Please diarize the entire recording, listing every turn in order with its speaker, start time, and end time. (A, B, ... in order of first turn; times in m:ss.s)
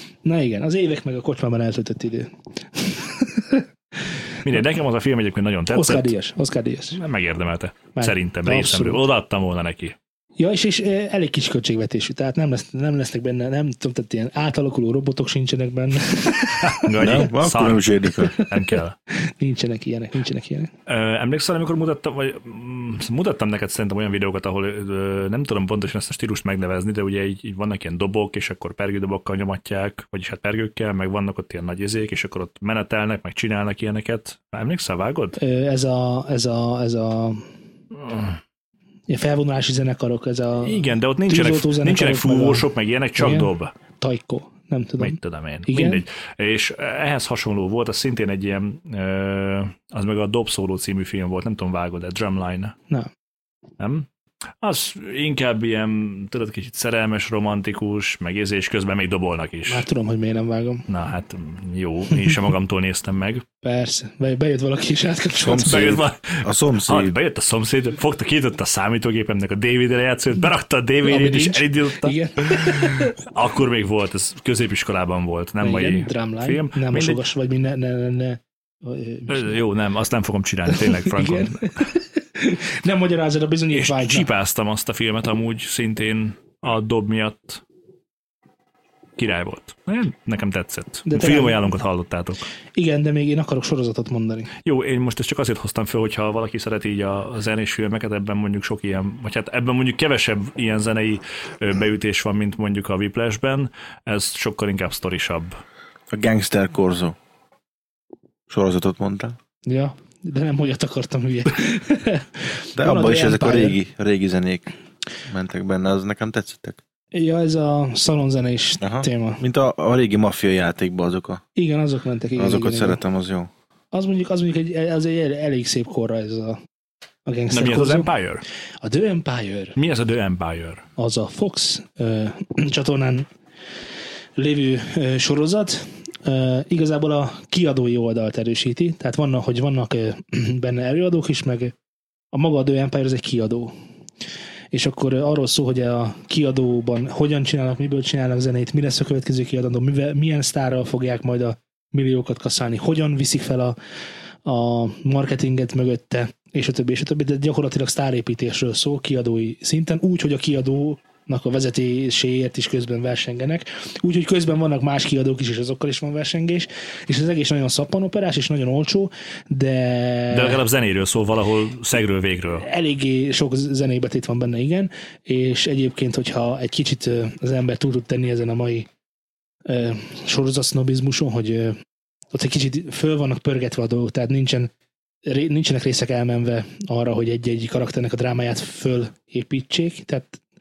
0:00.2-0:03.6 A
0:04.4-0:06.1 B
0:05.7-0:07.0 A
0:06.9-0:10.0 B
0:08.0-0:09.0 A
0:10.4-0:16.8 A
0:16.6-0:19.0 B
0:17.0-0:18.3 C
0:18.3-0:18.6 A
0:19.1-0:20.7 A
0:20.9-0:35.4 B
0:35.4-0:37.4 A
0:38.0-0:38.4 B
0:39.1-0:46.0 A
0:40.6-0:43.7 B
0:45.0-0:52.7 B
0:53.8-0:54.1 B
0:54.6-0:59.8 B
0:59.7-1:00.8 A
1:00.9-1:03.4 B
1:03.6-1:06.0 A
1:05.4-1:07.2 C
1:05.6-1:17.2 B
1:11.0-1:13.2 A
1:15.6-1:19.6 A
1:19.3-1:21.8 B
1:20.7-1:24.3 A
1:23.7-1:27.6 B
1:29.2-1:32.4 B
1:31.1-1:31.7 A
1:32.7-1:34.5 A
1:34.6-1:45.6 B
1:46.1-1:47.2 C
1:48.5-1:49.4 C
1:49.6-1:53.8 A
1:52.8-1:54.7 C
1:55.2-1:56.8 C
1:57.1-1:59.4 A
1:58.8-2:01.4 C
2:01.6-2:03.0 A
2:02.4-2:03.5 C
2:03.9-2:06.6 A
2:07.2-2:08.1 A
2:07.5-2:08.4 B
2:08.8-2:09.8 A
2:09.8-2:10.8 B
2:11.0-2:13.2 A
2:14.4-2:21.7 A
2:22.3-2:23.7 A
2:24.7-2:33.8 A
2:34.4-2:50.6 A
2:50.3-2:52.6 B
2:52.6-2:58.9 A
2:59.6-3:01.8 A
3:02.3-3:04.7 A
3:05.2-3:10.4 A